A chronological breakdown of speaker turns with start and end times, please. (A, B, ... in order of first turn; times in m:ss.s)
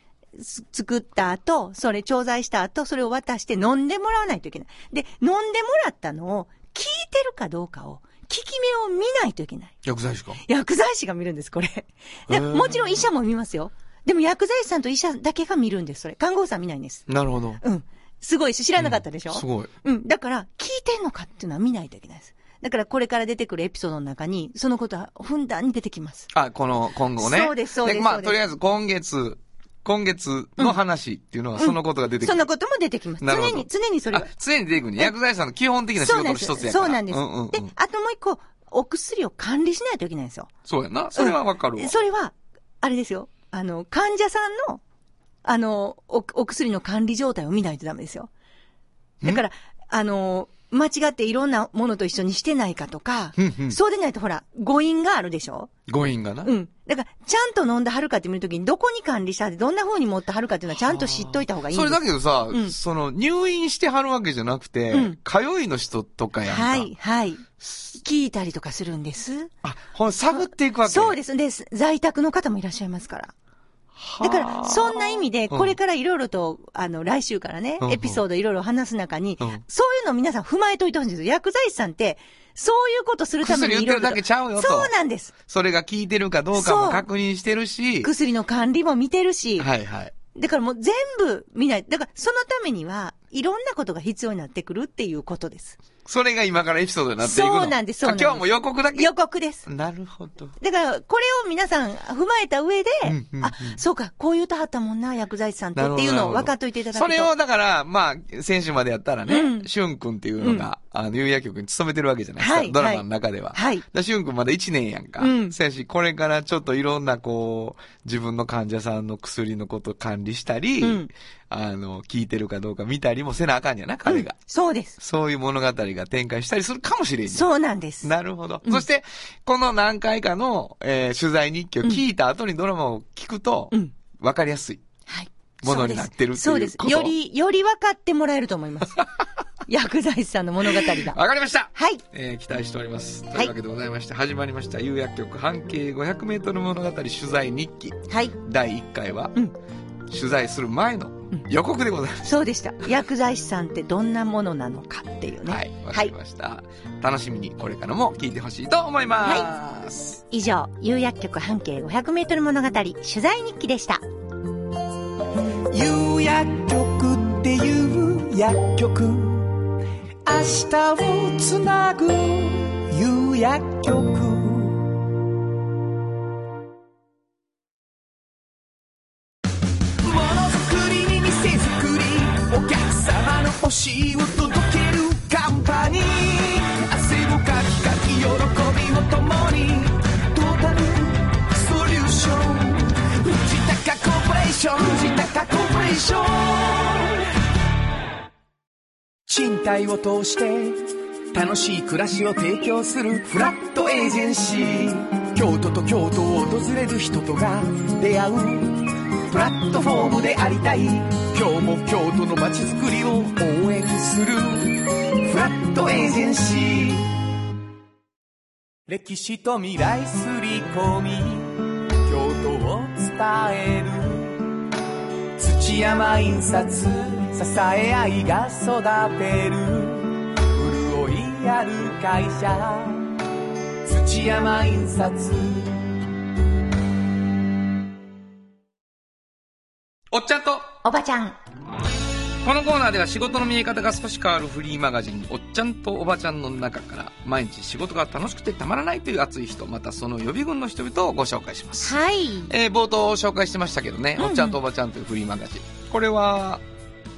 0:00.4-0:09.8 A
0:09.8-0:10.4 B
0:10.4-0:17.1 A
0:12.3-0:13.0 B
0:17.1-0:17.6 B
0:17.6-0:26.3 A
0:18.8-0:19.7 B
0:26.3-0:32.4 B
0:27.2-0:28.4 A
0:31.6-0:34.3 A
0:33.2-0:37.7 B
0:36.0-0:40.5 A
0:40.6-0:41.9 B
0:41.2-0:44.8 A
0:45.4-0:48.3 A
0:49.2-0:55.7 A
0:53.4-0:53.8 B
0:55.9-0:56.5 B
0:56.4-1:02.8 A
1:00.9-1:06.9 B
1:04.9-1:05.2 A
1:06.5-1:09.5 A
1:09.6-1:11.2 B
1:10.9-1:13.3 A
1:14.0-1:15.8 B
1:14.2-1:25.3 A
1:17.8-1:18.2 B
1:23.4-1:24.9 B
1:25.5-1:28.1 B
1:26.5-1:27.0 A
1:28.0-1:29.7 A
1:29.6-1:30.1 B
1:30.3-1:35.8 A
1:36.0-1:39.1 B
1:37.2-1:39.6 A
1:39.6-1:40.6 B
1:40.6-1:47.3 A
1:43.0-1:43.8 B
1:45.8-2:04.4 B
1:49.3-1:49.7 A
1:50.4-1:50.7 A
1:52.4-1:53.8 A
1:55.2-1:55.6 A
2:00.8-2:01.1 A
2:04.1-2:05.0 A
2:05.0-2:07.5 B
2:07.3-2:08.1 A
2:08.0-2:14.8 B
2:15.1-2:19.1 A
2:15.6-2:17.1 B
2:19.7-2:21.2 A
2:20.6-2:29.3 B
2:21.7-2:22.0 A
2:28.1-2:28.4 A
2:30.1-2:32.3 B
2:32.2-2:36.1 A
2:35.5-2:40.2 B
2:39.2-2:39.5 A
2:40.3-2:44.0 A
2:45.7-2:49.6 C
2:50.3-2:54.9 C
3:00.0-3:17.2 C
3:19.3-3:37.2 C
3:38.9-3:44.4 C
3:45.4-3:53.2 C
3:53.8-3:55.9 C
4:00.1-4:00.7 B
4:00.8-4:01.4 A
4:02.4-4:12.0 B
4:11.8-4:12.5 A
4:12.5-4:16.6 B
4:14.2-4:14.6 A